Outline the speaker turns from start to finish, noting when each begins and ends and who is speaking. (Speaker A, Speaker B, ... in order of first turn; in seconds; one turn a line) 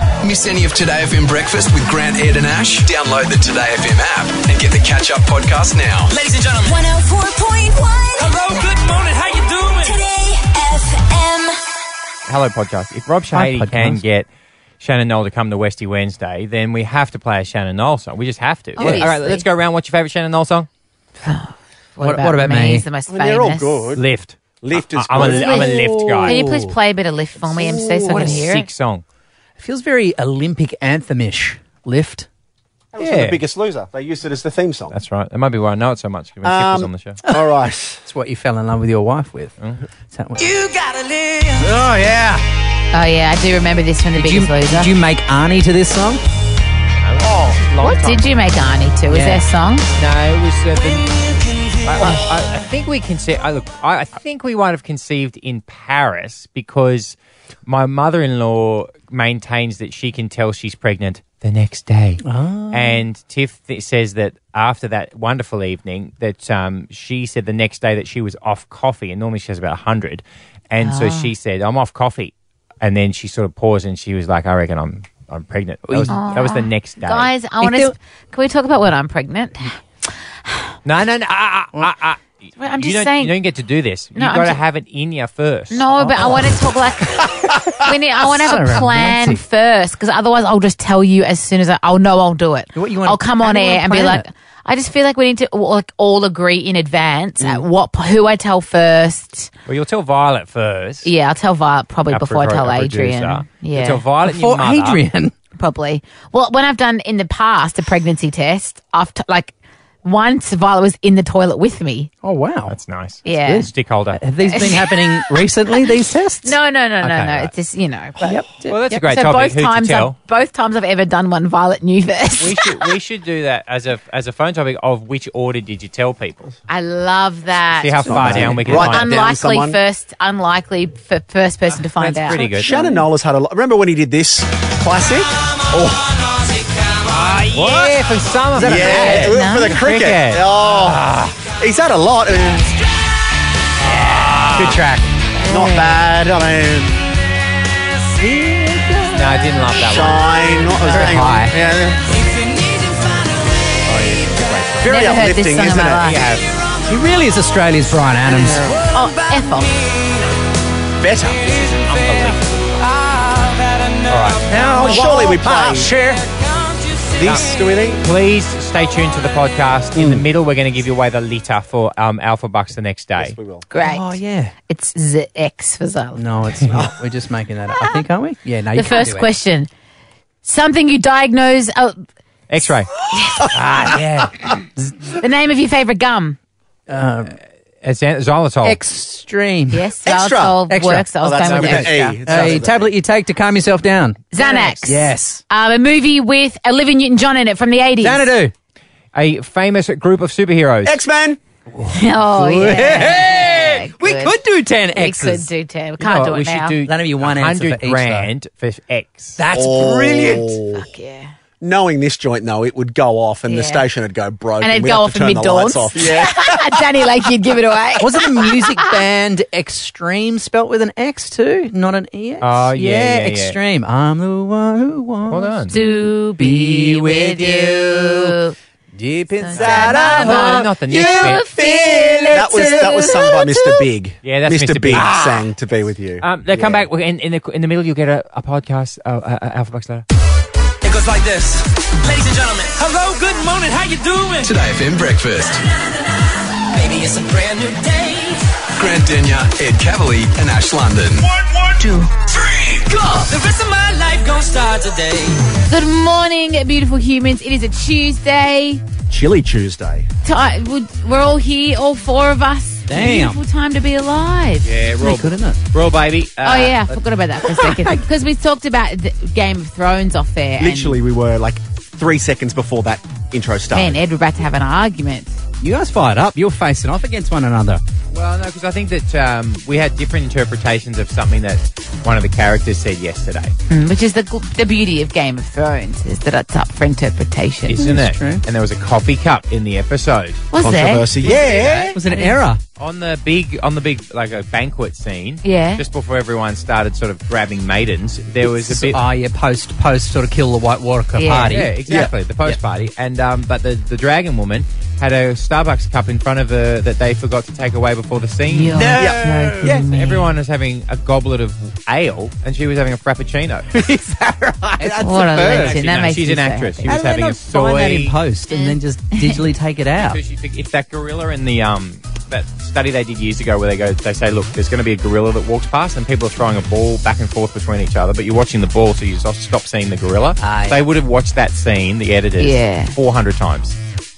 Speaker A: 0.2-6.1
Speaker B: 6.1-6.8
Speaker C: 6.6-8.6
Speaker B: 8.2-10.0
Speaker C: 9.8-11.6
Speaker D: 12.3-14.3
Speaker E: 13.3-14.0
Speaker D: 14.8-20.7
Speaker F: 18.8-19.5
Speaker E: 18.8-19.1
Speaker F: 21.2-23.9
Speaker E: 22.0-22.9
Speaker G: 23.1-24.1
Speaker D: 24.0-26.4
Speaker G: 24.6-26.4
Speaker F: 25.2-28.7
Speaker G: 27.6-28.3
Speaker E: 28.1-28.4
Speaker D: 28.2-29.0
Speaker E: 29.6-32.3
Speaker G: 33.0-35.0
Speaker D: 33.0-33.4
Speaker D: 34.9-37.2
Speaker G: 36.4-38.0
Speaker E: 37.2-37.5
Speaker E: 38.0-39.6
Speaker E: 40.1-40.6
Speaker B: 40.6-41.7
Speaker E: 41.6-42.4
Speaker F: 42.9-44.9
Speaker E: 44.2-46.2
Speaker D: 47.0-48.3
Speaker G: 47.3-47.6
Speaker F: 47.8-49.9
Speaker E: 49.1-49.5
Speaker D: 50.0-51.1
Speaker D: 51.8-77.3
Speaker E: 62.2-63.0
Speaker F: 70.8-71.3
Speaker E: 75.9-76.3
Speaker F: 76.1-79.8
Speaker E: 77.6-77.9
Speaker D: 80.8-82.2
Speaker F: 82.6-83.4
Speaker D: 82.8-86.3
Speaker F: 84.2-84.6
Speaker F: 85.7-99.5
Speaker E: 86.0-86.6
Speaker E: 88.2-89.4
Speaker E: 92.7-94.3
Speaker D: 99.7-101.1
Speaker F: 101.0-104.0
Speaker D: 102.1-105.0
Speaker E: 104.2-105.3
Speaker F: 105.6-112.1
Speaker E: 112.2-117.5
Speaker D: 112.7-114.2
Speaker F: 113.2-113.7
Speaker F: 114.4-118.3
Speaker E: 118.2-119.0
Speaker D: 118.7-120.2
Speaker F: 118.9-122.9
Speaker D: 122.4-126.5
Speaker F: 126.7-132.9
Speaker D: 127.8-129.3
Speaker G: 128.1-129.8
Speaker E: 128.3-128.6
Speaker D: 132.0-132.9
Speaker G: 132.4-136.1
Speaker D: 137.1-141.3
Speaker E: 138.6-139.3
Speaker G: 138.6-142.8
Speaker F: 139.0-139.8
Speaker G: 144.1-144.6
Speaker D: 144.5-145.0
Speaker G: 145.4-147.0
Speaker F: 145.4-146.0
Speaker E: 148.2-149.7
Speaker D: 149.1-151.2
Speaker G: 149.8-152.0
Speaker E: 150.8-151.6
Speaker D: 153.9-155.2
Speaker G: 154.8-156.2
Speaker F: 154.8-156.2
Speaker D: 156.0-156.5
Speaker E: 156.8-159.4
Speaker F: 158.9-159.8
Speaker G: 161.0-161.6
Speaker B: 161.6-162.1
Speaker D: 161.7-162.8
Speaker B: 163.3-164.4
Speaker D: 164.1-164.5
Speaker E: 164.5-166.3
Speaker G: 164.7-165.9
Speaker B: 166.3-167.1
Speaker G: 167.2-168.0
Speaker D: 167.2-173.4
Speaker G: 170.0-170.2
Speaker G: 173.2-173.7
Speaker F: 173.7-176.2
Speaker E: 173.8-174.5
Speaker E: 176.2-179.3
Speaker F: 178.7-179.7
Speaker F: 180.4-182.0
Speaker D: 182.5-182.9
Speaker F: 182.7-183.4
Speaker E: 183.5-185.1
Speaker F: 185.2-186.4
Speaker E: 186.9-187.4
Speaker D: 187.8-188.8
Speaker E: 188.6-189.9
Speaker F: 189.7-192.2
Speaker G: 190.1-192.9
Speaker E: 190.7-191.1
Speaker D: 191.4-192.4
Speaker E: 192.2-195.4
Speaker F: 194.3-198.3
Speaker E: 198.0-198.5
Speaker D: 199.1-201.0
Speaker G: 200.8-201.4
Speaker E: 201.7-205.5
Speaker F: 201.9-204.4
Speaker F: 204.9-206.8
Speaker D: 206.0-209.4
Speaker E: 206.8-208.3
Speaker E: 209.4-210.6
Speaker G: 209.5-210.9
Speaker F: 210.7-211.3
Speaker G: 211.6-216.8
Speaker F: 213.5-213.8
Speaker F: 214.6-219.0
Speaker E: 218.0-228.3
Speaker D: 222.4-223.6
Speaker D: 225.3-225.8
Speaker F: 225.7-228.6
Speaker E: 228.9-233.9
Speaker F: 229.4-233.4
Speaker D: 229.5-231.5
Speaker G: 232.3-236.9
Speaker D: 234.2-235.2
Speaker D: 236.2-240.1
Speaker B: 240.8-244.5
Speaker A: 244.4-245.6
Speaker B: 246.7-248.5
Speaker A: 248.8-251.3
Speaker B: 252.2-255.4
Speaker F: 255.7-258.8
Speaker G: 259.1-260.1
Speaker F: 260.2-264.7
Speaker E: 262.9-263.4
Speaker D: 264.6-267.0
Speaker E: 264.9-265.6
Speaker F: 266.4-271.0
Speaker E: 267.4-268.0
Speaker G: 270.6-274.0
Speaker F: 273.7-275.4
Speaker E: 275.6-277.8
Speaker D: 278.1-283.5
Speaker F: 283.7-288.0
Speaker D: 287.7-290.5
Speaker E: 287.8-288.4
Speaker F: 290.5-291.1
Speaker G: 290.6-292.0
Speaker D: 291.2-292.0
Speaker E: 291.9-292.6
Speaker F: 292.1-292.4
Speaker D: 292.8-299.0
Speaker F: 295.4-295.8
Speaker E: 298.4-302.6
Speaker F: 301.1-301.6
Speaker D: 301.3-309.1
Speaker G: 301.9-302.1
Speaker F: 308.5-310.3
Speaker E: 308.7-309.9
Speaker G: 309.0-309.2
Speaker D: 309.6-313.9
Speaker E: 313.7-320.2
Speaker D: 314.6-318.2
Speaker F: 315.0-316.9
Speaker F: 318.5-319.4
Speaker D: 320.0-333.8
Speaker E: 330.4-330.9
Speaker F: 332.4-332.9